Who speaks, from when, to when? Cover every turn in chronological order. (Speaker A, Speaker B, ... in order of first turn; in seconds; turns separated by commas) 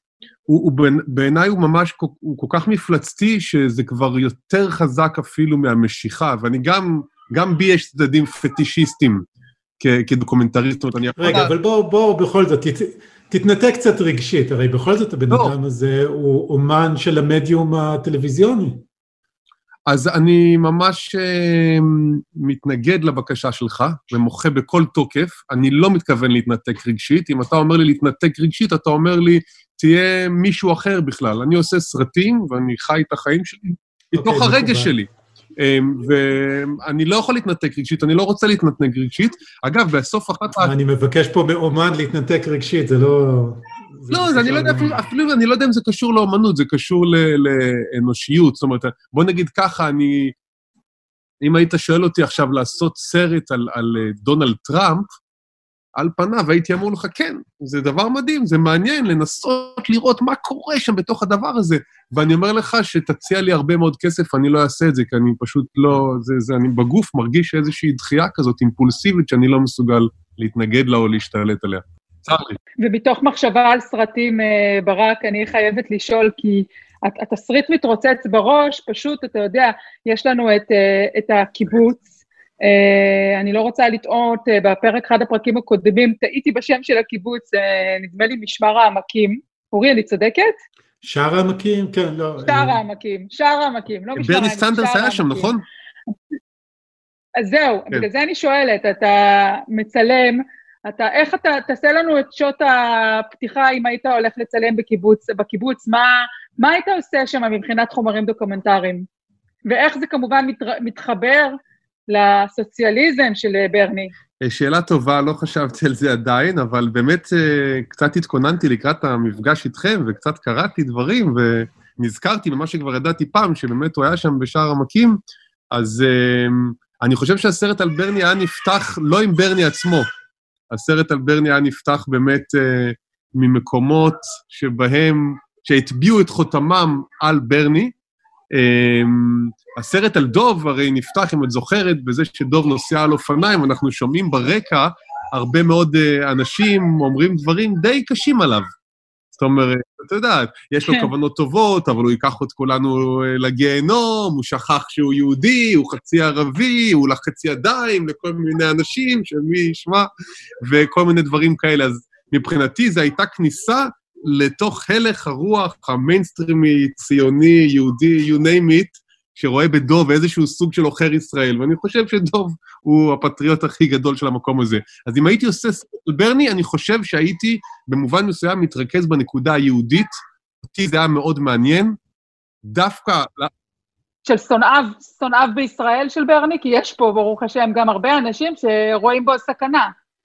Speaker A: 0.5-9.2, Speaker A: 9.8-11.5, Speaker B: 11.2-18.8, Speaker A: 19.9-35.1, Speaker B: 34.1-34.9, Speaker A: 35.6-40.7, Speaker B: 40.6-45.1, Speaker A: 44.1-50.3, Speaker A: 51.4-55.0, Speaker A: 56.0-72.6, Speaker C: 72.8-82.0, Speaker C: 82.6-90.5, Speaker B: 91.0-92.8, Speaker C: 92.5-95.5, Speaker A: 94.2-95.6, Speaker C: 97.4-100.4, Speaker C: 100.9-109.0, Speaker C: 109.7-111.5, Speaker C: 112.1-114.1, Speaker A: 114.4-125.2, Speaker A: 125.7-130.1, Speaker A: 130.7-137.9, Speaker A: 138.5-148.7, Speaker A: 149.4-160.1, Speaker A: 160.6-180.1, Speaker A: 180.7-182.0, Speaker A: 182.7-183.5, Speaker C: 184.3-189.9